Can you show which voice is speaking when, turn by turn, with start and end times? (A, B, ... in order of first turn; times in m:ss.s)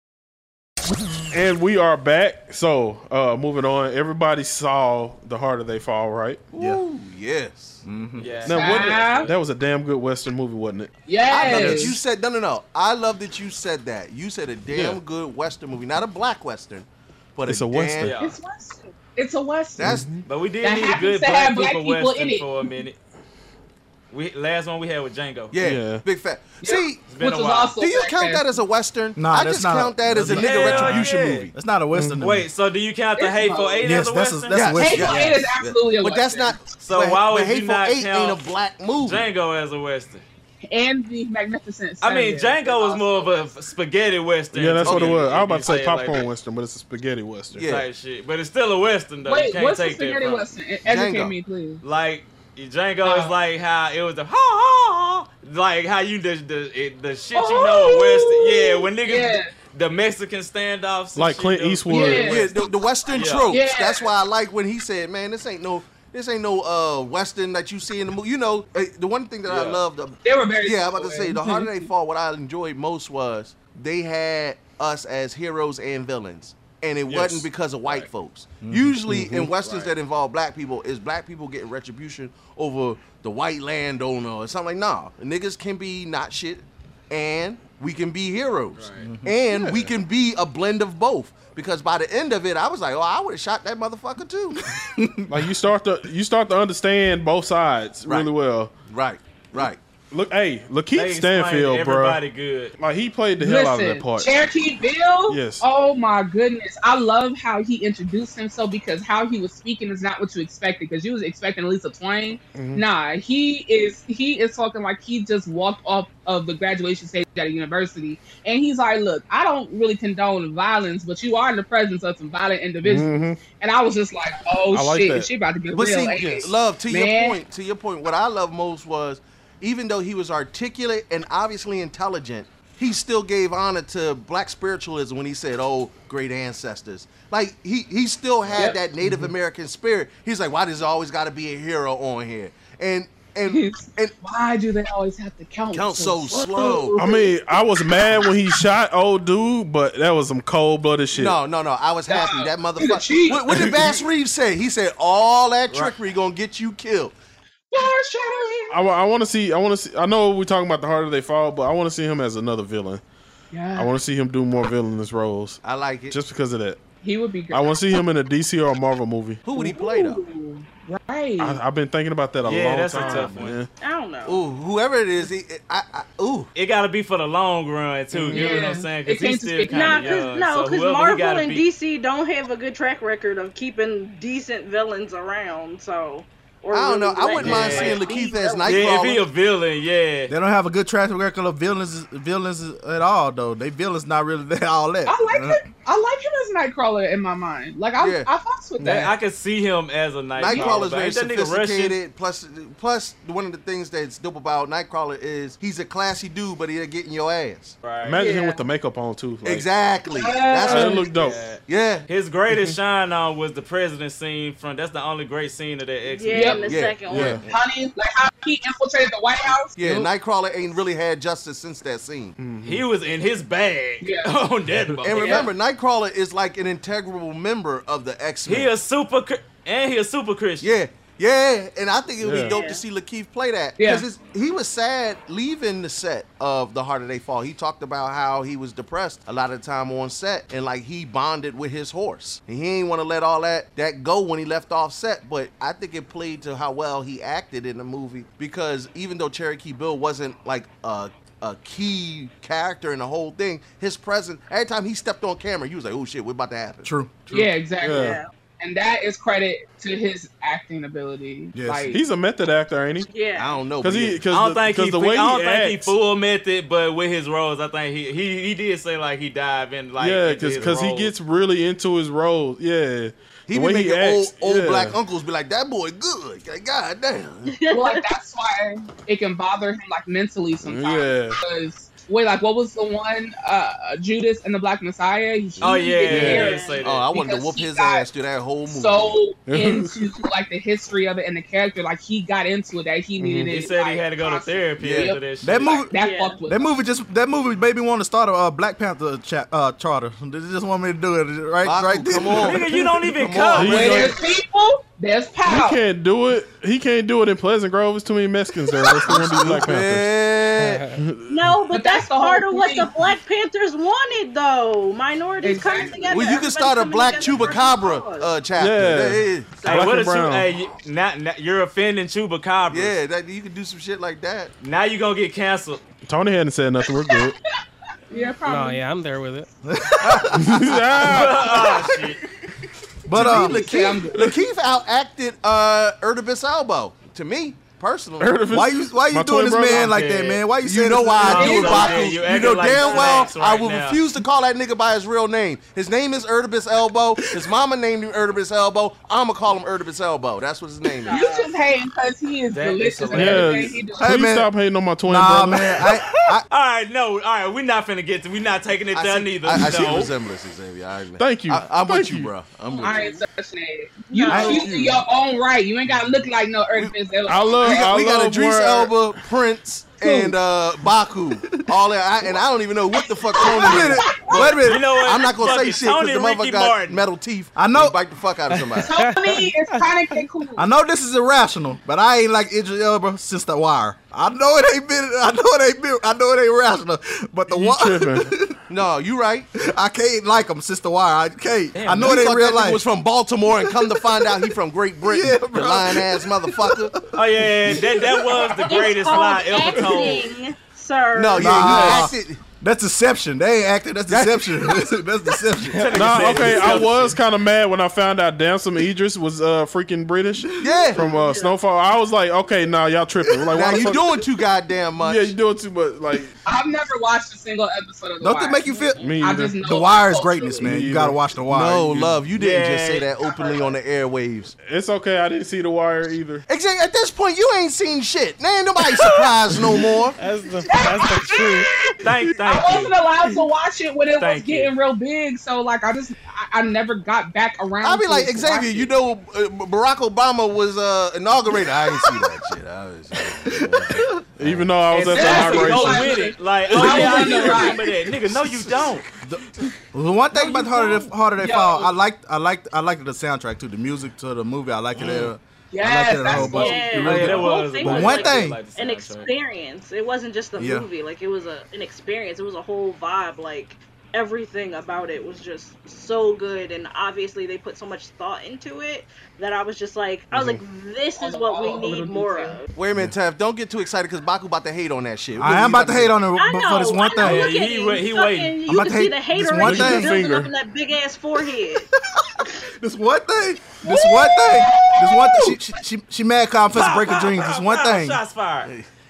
0:01.3-0:06.5 A
0:06.5-0:07.8 B
0:07.8-0:08.5 C
0:08.2-0:09.3 D
0:08.4-0:10.9 A
0:08.5-0:09.3 E
0:11.1-0:12.0 E
0:11.3-0:18.1 B
0:11.4-0:11.9 C
0:14.7-0:15.0 A
0:17.5-0:18.1 A
0:18.0-0:18.4 D
0:18.1-0:19.9 E
0:19.8-0:20.1 B
0:19.8-0:20.2 A
0:20.2-0:23.0 D
0:20.6-0:22.5 E
0:24.1-0:25.5 D
0:25.5-0:27.0 B
0:25.6-0:26.0 A
0:26.6-0:28.6 E
0:27.1-0:27.8 D
0:27.8-0:31.5 B
0:29.2-0:32.5 C
0:30.2-0:31.5 D
0:31.9-0:32.2 A
0:32.2-0:35.1 D
0:33.2-0:34.0 E
0:33.8-0:35.4 C
0:34.5-0:39.2 B
0:34.8-0:36.6 E
0:36.8-0:38.5 D
0:39.0-0:40.2 D
0:40.7-0:42.8 E
0:42.0-0:46.3 D
0:42.6-0:43.5 F
0:44.5-0:47.6 A
0:44.8-0:45.2 B
0:47.5-0:47.8 B
0:47.6-0:50.5 D
0:49.2-0:51.8 E
0:50.8-0:51.3 B
0:51.8-1:02.5 D
0:53.0-0:53.3 E
0:57.3-0:59.5 E
1:01.2-1:02.5 A
1:01.9-1:02.4 E
1:02.2-1:34.6 B
1:03.1-1:03.5 D
1:03.5-1:04.1 E
1:09.5-1:09.8 D
1:10.2-1:11.9 E
1:17.1-1:18.1 D
1:18.6-1:19.5 C
1:19.6-1:19.9 D
1:28.8-1:29.1 D
1:29.0-1:29.5 C
1:34.7-1:35.4 C
1:35.3-1:38.7 A
1:38.9-1:39.8 B
1:40.1-1:42.2 A
1:40.9-1:42.7 D
1:42.8-1:44.4 A
1:43.4-2:07.4 E
1:45.3-1:45.6 A
1:52.5-1:52.8 A
2:02.8-2:03.4 A
2:04.7-2:05.3 A
2:05.7-2:24.1 B
2:06.1-2:06.5 A
2:18.5-2:19.2 E
2:23.5-2:27.3 E
2:25.7-2:27.0 B
2:27.0-2:31.4 A
2:31.1-2:37.1 B
2:32.1-2:33.7 E
2:37.7-2:38.7 E
2:38.7-2:43.0 A
2:43.5-2:43.9 E
2:43.7-2:46.8 A
2:45.6-2:46.2 B
2:47.0-2:47.8 E
2:47.5-2:49.4 A
2:49.4-2:50.2 B
2:49.5-2:51.6 E
2:51.4-2:53.7 A
2:52.4-2:53.6 D
2:53.0-2:53.2 B
2:53.8-2:54.4 F
2:54.2-2:56.5 B
2:56.5-3:01.6 D
2:58.1-3:00.2 E
2:59.7-3:08.9 F
3:06.7-3:09.2 B
3:07.3-3:08.0 D
3:08.6-3:10.3 D
3:10.3-3:15.6 C
3:15.0-3:19.1 E
3:18.0-3:18.3 B
3:18.8-3:22.0 D
3:20.4-3:27.8 B
3:20.5-3:20.8 E
3:27.8-3:28.2 D
3:28.0-3:29.7 A
3:28.2-3:28.6 E
3:29.4-3:31.1 B
3:30.1-3:31.1 E
3:30.6-3:31.5 A
3:31.1-3:36.7 D
3:31.6-3:32.0 B
3:36.1-3:37.4 F
3:36.3-3:36.7 E
3:36.6-3:37.5 B
3:37.1-3:37.4 A
3:37.4-3:40.0 E
3:39.8-3:42.4 B
3:42.4-3:42.8 A
3:42.6-3:45.5 D
3:44.0-3:44.3 E
3:45.0-3:48.7 B
3:48.4-3:50.7 D
3:50.6-4:16.9 B
3:52.2-3:52.5 A
3:52.4-3:52.8 F
3:53.8-3:54.0 E
4:16.8-4:17.5 C
4:17.3-4:22.0 E
4:17.8-4:18.2 A
4:17.9-4:18.3 F
4:21.5-4:21.9 C
4:21.9-4:23.1 A
4:23.0-4:23.6 F
4:23.4-4:24.2 B
4:23.8-4:25.9 A
4:24.3-4:31.1 D
4:30.0-4:35.0 A
4:33.5-4:37.5 B
4:37.5-4:38.1 F
4:37.7-4:48.1 E
4:40.6-4:41.4 A
4:45.6-4:47.0 D
4:45.6-4:46.2 B
4:46.1-4:46.8 F
4:46.8-4:49.2 B
4:48.7-4:56.7 E
4:49.5-4:50.0 A
4:53.2-4:53.6 A
4:53.5-4:55.8 D
4:54.8-4:55.2 B
4:55.4-5:02.6 C
4:55.9-4:56.4 F
5:01.6-5:04.2 B
5:02.3-5:04.2 D
5:03.5-5:04.2 A
5:03.6-5:05.8 E
5:05.4-5:10.1 A
5:09.0-5:10.8 B
5:10.6-5:10.9 G
5:10.9-5:11.4 A
5:11.3-5:18.3 F
5:11.7-5:12.9 E
5:15.4-5:16.1 E
5:16.0-5:19.6 B
5:18.6-5:20.5 A
5:19.6-5:19.9 F
5:19.6-5:22.9 D
5:22.7-5:24.5 B
5:24.6-5:25.8 D
5:26.0-5:27.4 A
5:28.1-5:28.8 E
5:28.4-5:29.5 G
5:29.6-5:31.2 C
5:30.3-5:31.5 A
5:31.0-5:32.2 D
5:33.0-5:34.3 C
5:33.1-5:34.3 E
5:33.1-5:38.4 B
5:38.2-5:39.9 A
5:38.5-5:41.6 C
5:39.7-5:40.4 D
5:40.6-5:51.3 B
5:41.2-5:44.0 D
5:41.2-5:42.2 E
5:42.8-5:43.3 F
5:51.1-5:51.5 F
5:51.1-5:54.1 E
5:52.5-5:53.8 D
5:53.1-5:55.9 A
5:54.0-5:54.5 C
5:55.0-5:56.4 C
5:56.5-6:00.1 D
5:58.9-6:03.1 B
6:01.2-6:02.3 A
6:02.7-6:03.2 F
6:02.8-6:07.6 E
6:04.1-6:04.8 F
6:04.3-6:05.0 C
6:07.2-6:09.0 A
6:07.6-6:19.0 B
6:10.0-6:10.3 E
6:13.4-6:14.4 E
6:13.6-6:14.8 C
6:14.6-6:17.0 D
6:17.6-6:18.0 C
6:18.5-6:20.2 G
6:18.8-6:20.7 E
6:20.6-6:28.6 C
6:27.5-6:28.3 A
6:28.7-6:29.5 B
6:29.6-6:32.8 C
6:31.7-6:32.2 D
6:32.0-6:36.9 B
6:33.6-6:34.3 C
6:35.0-6:37.2 C
6:37.1-6:40.3 D
6:38.4-6:41.9 F
6:41.2-6:42.4 B
6:41.4-6:46.4 C
6:41.7-6:42.0 A
6:44.1-6:44.8 B
6:45.7-6:47.2 D
6:45.9-6:54.0 A
6:50.6-6:51.1 B
6:51.0-6:51.6 F
6:53.3-6:53.9 C
6:53.5-6:55.3 B
6:55.0-6:56.3 A
6:56.4-7:00.6 E
6:58.2-6:59.0 C
6:59.0-6:59.6 A
6:59.6-7:02.0 C
7:00.6-7:02.1 A
7:01.5-7:04.5 B
7:02.4-7:03.7 D
7:04.6-7:06.4 A
7:06.5-7:10.2 B
7:10.2-7:11.7 G
7:10.7-7:11.7 E
7:12.0-7:13.0 D
7:12.4-7:18.9 E
7:14.2-7:14.7 D
7:17.8-7:24.6 B
7:24.4-7:26.3 A
7:24.9-7:29.0 D
7:24.9-7:27.9 E
7:26.8-7:27.7 B
7:28.3-7:29.1 B
7:29.2-7:38.6 C
7:30.3-7:31.9 E
7:35.0-7:35.3 B
7:35.7-7:37.1 E
7:36.5-7:52.7 F
7:36.9-7:39.3 D
7:40.6-7:40.9 C
7:50.3-7:50.6 A
7:51.2-7:52.6 E
7:52.7-7:56.2 B
7:55.4-7:57.5 C
7:56.3-8:01.9 F
7:57.2-7:58.6 D
7:58.7-8:00.1 C
7:59.6-8:00.5 A
8:02.8-8:08.2 C
8:03.8-8:05.6 E
8:06.7-8:08.7 D